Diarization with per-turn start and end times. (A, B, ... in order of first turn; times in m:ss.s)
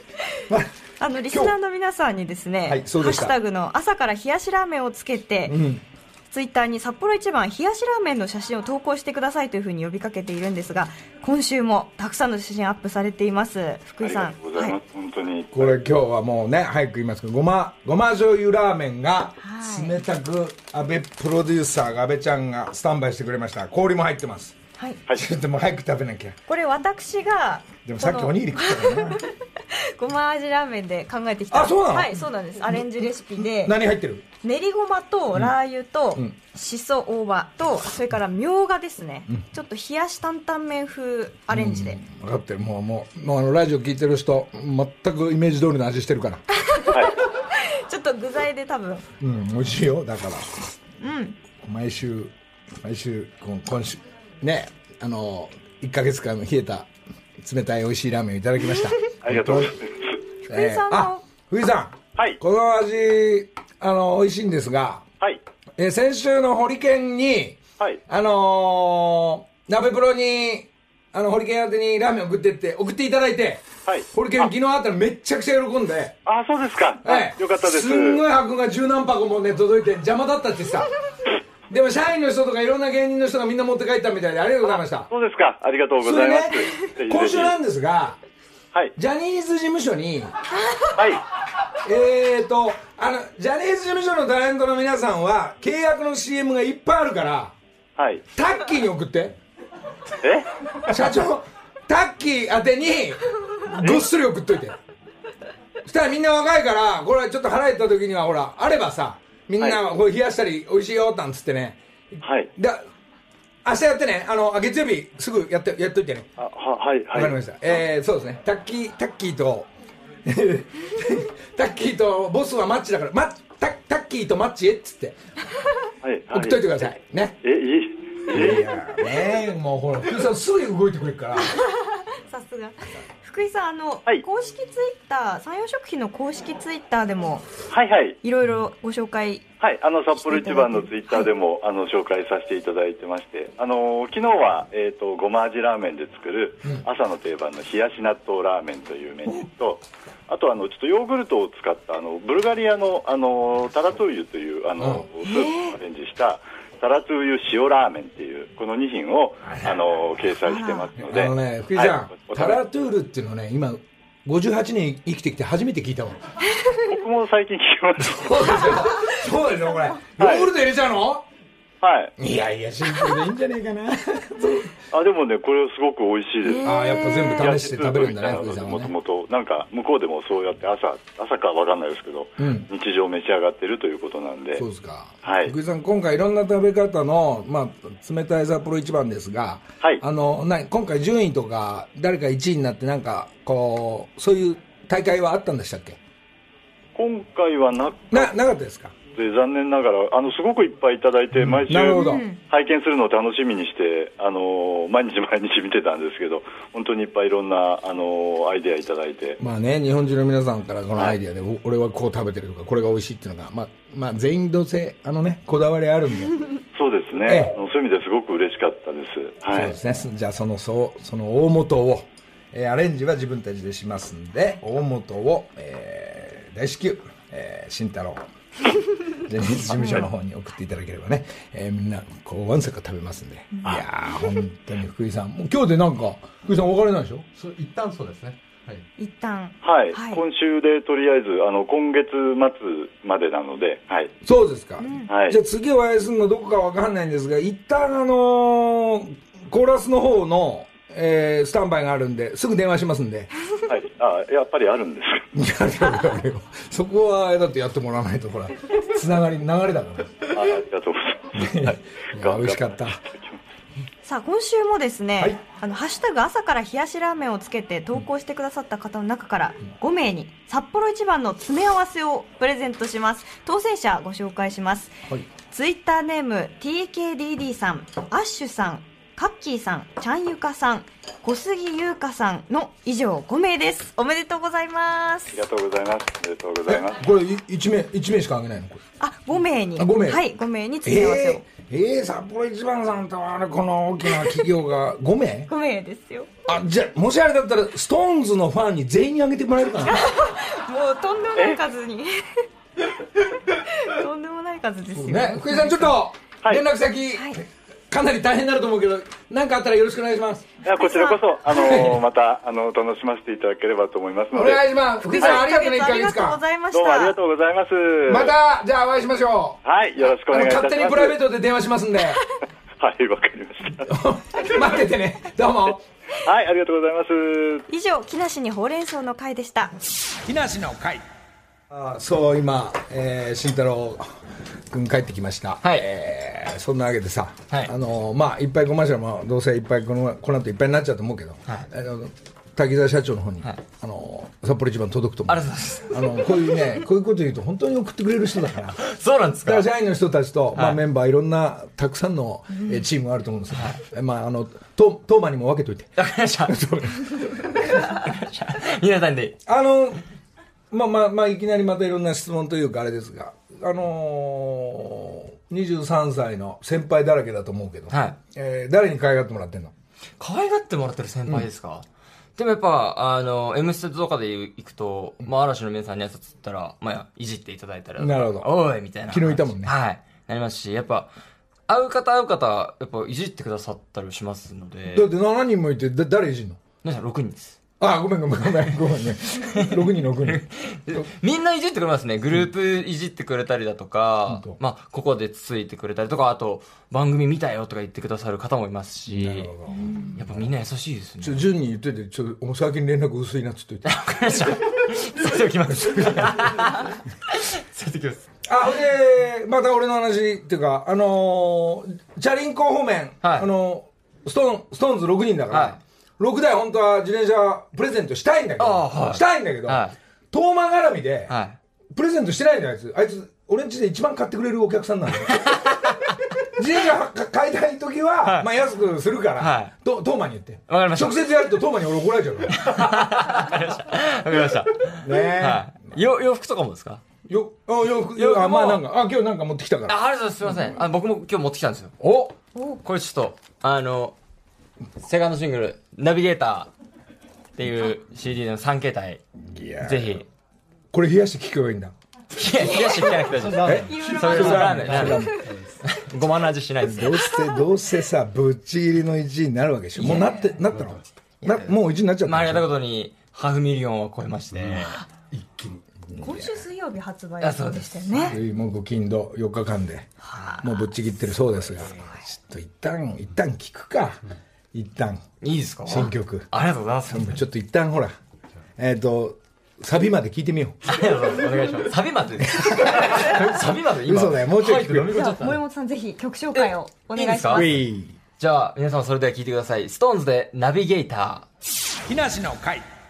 0:01.0-0:05.6 A
0:02.6-0:03.3 B
0:05.4-0:05.8 B
0:06.3-0:14.7 A
0:14.0-0:15.8 C
0:15.5-0:24.5 B
0:19.4-0:20.0 A
0:25.1-0:26.4 B
0:26.5-0:33.8 A
0:27.8-0:29.2 B
0:31.5-0:32.1 B
0:33.4-0:34.2 B
0:34.4-0:42.0 A
0:41.5-0:46.4 B
0:46.6-0:49.0 A
0:49.2-0:50.8 B
0:51.0-0:51.3 A
0:51.6-0:59.7 B
0:59.2-1:00.1 C
1:00.5-1:01.2 A
1:00.5-1:05.0 B
1:05.8-1:16.2 B
1:16.2-1:18.2 C
1:17.0-1:20.9 B
1:21.7-1:25.1 B
1:24.7-1:27.5 C
1:26.0-1:28.2 B
1:29.0-1:30.3 B
1:31.0-1:31.2 C
1:31.8-1:37.5 B
1:38.0-1:38.2 C
1:38.4-1:39.4 B
1:40.2-1:40.5 C
1:40.8-1:44.8 B
1:45.8-1:52.8 B
1:52.2-1:52.5 C
1:53.6-1:56.3 B
1:56.4-1:57.4 C
1:57.1-1:59.7 B
2:00.2-2:05.2 B
2:06.0-2:08.7 C
2:06.3-2:07.4 B
2:08.3-2:11.6 B
2:11.4-2:17.5 A
2:17.7-2:18.2 C
2:18.2-2:19.4 A
2:19.6-2:42.6 C
2:20.3-2:20.7 A
2:34.8-2:35.0 B
2:35.2-2:35.8 A
2:39.5-2:39.8 B
2:40.4-2:40.9 A
2:41.0-2:46.2 B
2:46.5-2:46.8 A
2:46.9-2:48.8 C
2:48.0-2:51.2 B
2:48.5-2:49.2 A
2:50.2-2:50.5 C
2:51.8-2:52.1 C
2:52.2-2:54.7 B
2:54.9-3:04.6 C
2:56.4-2:57.5 A
2:56.6-2:58.9 B
3:02.4-3:02.7 B
3:04.6-3:16.0 B
3:05.2-3:05.5 C
3:16.9-3:18.4 C
3:18.1-3:18.9 B
3:19.1-3:29.4 C
3:21.7-3:22.2 B
3:21.7-3:22.4 A
3:29.4-3:36.4 B
3:36.7-3:39.7 C
3:37.2-3:37.6 B
3:39.5-3:48.2 B
3:49.2-3:57.2 B
3:49.8-3:50.0 A
3:53.5-3:53.8 A
3:57.3-3:58.8 D
3:59.0-4:00.2 A
3:59.6-4:04.1 C
4:04.2-4:13.3 B
4:04.8-4:05.1 A
4:05.1-4:05.4 C
4:13.7-4:15.3 C
4:15.3-4:20.4 B
4:20.3-4:23.4 C
4:21.3-4:23.0 B
4:24.0-4:45.4 A
4:45.3-4:47.0 C
4:46.7-4:48.8 B
4:49.0-4:51.4 A
4:49.8-4:50.2 B
4:50.8-4:55.5 B
4:55.5-4:56.3 A
4:56.4-5:00.0 B
4:59.8-5:02.4 A
5:03.5-5:06.0 A
5:04.9-5:10.4 B
5:07.1-5:07.4 A
5:10.6-5:14.6 C
5:10.7-5:11.7 A
5:11.5-5:12.0 B
5:14.3-5:16.4 B
5:15.0-5:17.2 A
5:16.7-5:18.3 C
5:18.0-5:19.6 B
5:19.6-5:21.2 C
5:20.3-5:22.2 B
5:22.8-5:23.9 C
5:23.8-5:25.8 B
5:26.2-5:27.6 C
5:27.7-5:29.7 A
5:30.2-5:31.0 B
5:31.7-5:34.1 B
5:34.7-5:48.8 B
5:45.3-5:46.2 E
5:48.8-5:49.7 E
5:49.4-5:57.6 B
5:50.5-5:50.8 E
5:53.5-5:53.8 E
5:56.0-5:56.6 E
5:57.7-5:59.4 E
5:59.5-6:00.0 B
6:00.7-6:09.7 B
6:07.9-6:08.2 E
6:10.2-6:11.8 E
6:12.4-6:21.1 E
6:18.0-6:18.5 B
6:19.1-6:19.7 B
6:21.7-6:25.1 E
6:24.9-6:26.6 B
6:26.8-6:27.6 E
6:27.8-6:31.0 B
6:29.6-6:39.5 E
6:34.3-6:34.6 B
6:39.1-6:40.5 B
6:39.7-6:40.1 A
6:40.2-6:41.4 E
6:41.2-6:43.9 B
6:43.8-6:48.3 E
6:45.8-6:46.3 B
6:48.4-7:01.3 B
6:53.2-6:53.5 E
6:55.5-6:55.8 E
6:58.6-7:00.0 E
7:01.3-7:01.6 E
7:01.9-7:05.6 B
7:05.3-7:06.0 E
7:06.6-7:12.6 B
7:08.2-7:08.5 E
7:09.4-7:09.7 E
7:10.7-7:11.2 E
7:12.5-7:17.0 E
7:15.0-7:16.0 B
7:17.3-7:19.9 B
7:18.2-7:18.8 E
7:19.9-7:22.0 E
7:22.0-7:22.4 B
7:22.8-7:24.1 E
7:25.0-7:26.7 E
7:27.6-7:29.2 E
7:29.4-7:30.2 B
7:29.8-7:30.2 E
7:30.9-7:31.9 B
7:32.3-7:37.2 E
7:33.3-7:35.7 D
7:33.6-7:35.5 B
7:33.9-7:35.2 A
7:36.8-7:42.7 B
7:40.0-7:40.4 E
7:40.7-7:41.0 D
7:41.4-7:45.0 E
7:44.5-7:45.8 D
7:46.1-7:46.6 B
7:46.2-7:48.4 A
7:47.4-7:48.3 E
7:48.2-7:50.1 B
7:50.3-7:50.6 E
7:50.6-7:54.2 B
7:51.8-7:52.0 E
7:54.7-7:55.2 B
7:55.4-7:57.4 E
7:55.8-7:56.5 B
7:57.1-7:58.2 B
7:58.8-8:00.8 B
8:00.8-8:05.6 E
8:02.5-8:05.1 B
8:05.1-8:07.8 A
8:06.5-8:07.7 E
8:07.5-8:08.1 B
8:08.4-8:11.4 E
8:12.0-8:12.8 B